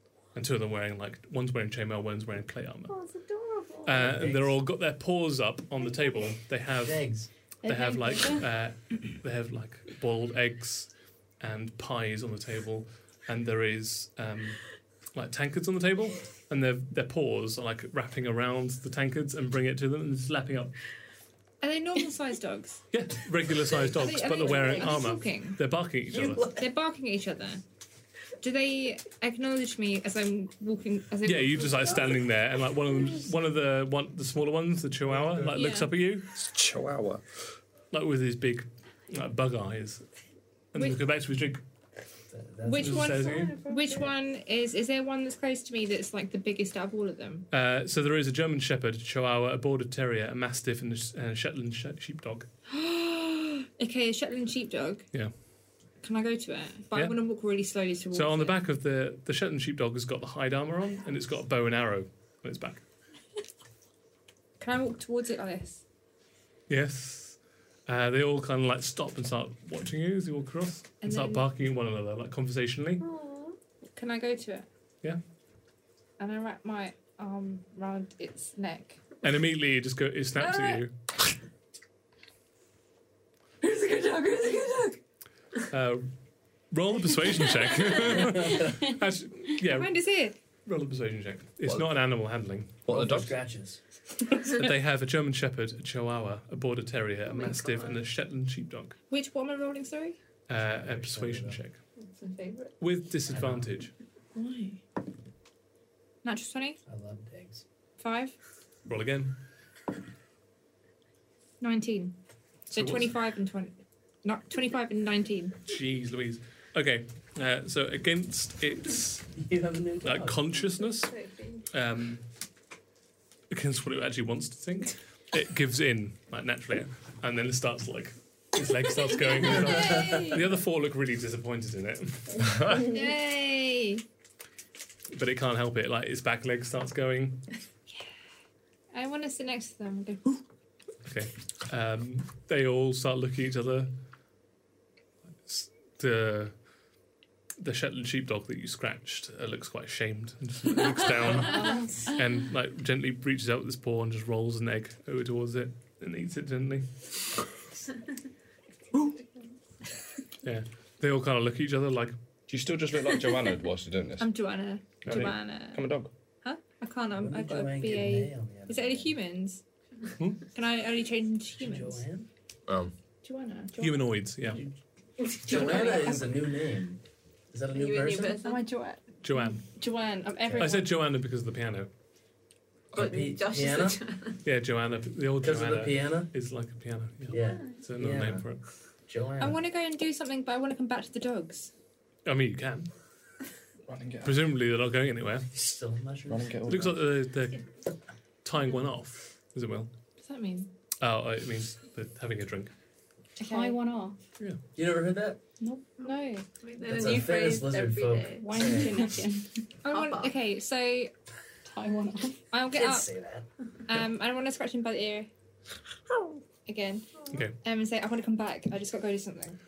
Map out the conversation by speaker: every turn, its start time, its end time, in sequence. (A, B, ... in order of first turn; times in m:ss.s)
0:00.3-0:02.9 A
0:02.9-0:04.0 B
0:03.8-0:07.0 A
0:03.9-0:04.6 C
0:06.8-0:07.3 C
0:07.6-0:20.7 A
0:07.6-0:08.4 D
0:21.6-0:22.8 E
0:22.9-0:26.5 A
0:23.8-0:25.6 E
0:26.1-0:26.7 C
0:26.4-0:27.6 E
0:28.4-0:32.1 E
0:31.2-0:36.3 A
0:35.1-0:35.6 C
0:36.3-0:37.2 F
0:37.9-0:40.1 A
0:40.7-0:41.6 A
0:42.3-0:43.3 C
0:42.6-0:47.5 E
0:42.8-0:43.6 A
0:43.0-0:44.1 B
0:47.5-0:52.5 A
0:52.7-0:55.1 E
0:56.0-0:58.6 E
0:56.9-0:57.2 A
0:58.1-1:02.8 A
1:04.6-1:05.8 E
1:06.7-1:13.0 A
1:11.0-1:11.5 E
1:13.0-1:13.6 B
1:13.9-1:14.7 E
1:16.2-1:19.1 E
1:19.2-1:20.9 A
1:20.4-1:20.8 E
1:23.6-1:25.0 E
1:25.7-1:26.1 A
1:26.7-1:30.0 A
1:28.0-1:28.7 C
1:29.6-1:30.4 E
1:30.6-1:32.8 A
1:31.6-1:31.9 F
1:32.8-1:33.4 F
1:32.9-1:33.8 C
1:34.4-1:39.0 A
1:37.3-1:38.0 B
1:39.1-1:40.2 E
1:40.5-1:41.8 A
1:40.7-1:41.6 C
1:42.1-1:42.7 B
1:42.8-1:43.9 A
1:43.3-1:43.7 C
1:44.4-1:44.8 E
1:46.2-1:46.8 E
1:46.9-1:47.6 C
1:48.0-1:48.4 E
1:48.9-1:49.4 A
1:51.6-1:52.2 E
1:52.7-1:53.1 A
1:52.7-1:55.6 E
1:55.7-1:59.4 A
1:59.4-2:00.5 C
2:00.0-2:01.2 A
2:00.8-2:01.7 B
2:01.7-2:02.3 A
2:03.5-2:12.6 A
2:09.5-2:10.4 E
2:09.8-2:10.2 C
2:12.8-2:14.0 E
2:15.1-2:17.5 A
2:18.9-2:20.4 E
2:21.0-2:23.9 A
2:25.4-2:26.6 A
2:27.6-2:37.0 A
2:31.5-2:31.8 B
2:40.4-2:42.2 A
2:42.5-2:44.3 F
2:44.2-2:49.6 E
2:45.0-2:45.3 A
2:45.1-2:46.1 F
2:47.2-2:49.1 C
2:50.5-2:52.0 E
2:51.6-2:52.3 C
2:52.7-2:52.9 F
2:53.2-2:54.2 E
2:53.8-2:54.6 A
2:54.5-2:54.8 C
2:55.3-2:56.1 B
2:55.4-2:58.4 C
2:55.4-2:56.4 E
2:57.7-2:58.7 B
2:58.4-3:00.9 E
2:59.2-2:59.6 A
3:00.6-3:01.9 A
3:02.9-3:04.0 C
3:02.9-3:04.4 B
3:04.4-3:08.6 A
3:05.4-3:06.3 C
3:07.3-3:08.5 C
3:07.3-3:07.8 B
3:09.1-3:09.6 C
3:09.4-3:11.7 E
3:12.3-3:12.9 A
3:13.9-3:14.4 F
3:14.2-3:15.5 A
3:15.5-3:16.6 C
3:16.3-3:17.1 F
3:16.7-3:17.7 A
3:18.4-3:19.9 A
3:20.2-3:20.7 E
3:21.0-3:22.7 A
3:23.4-3:23.8 E
3:23.4-3:24.2 D
3:24.8-3:25.4 C
3:25.6-3:26.5 E
3:26.0-3:28.8 B
3:26.8-3:29.1 C
3:28.4-3:29.5 D
3:28.6-3:29.0 E
3:29.8-3:31.1 E
3:29.9-3:30.4 B
3:31.7-3:32.4 D
3:32.5-3:33.1 E
3:32.7-3:33.5 C
3:33.9-3:35.3 E
3:36.7-3:39.6 E
3:37.3-3:37.6 A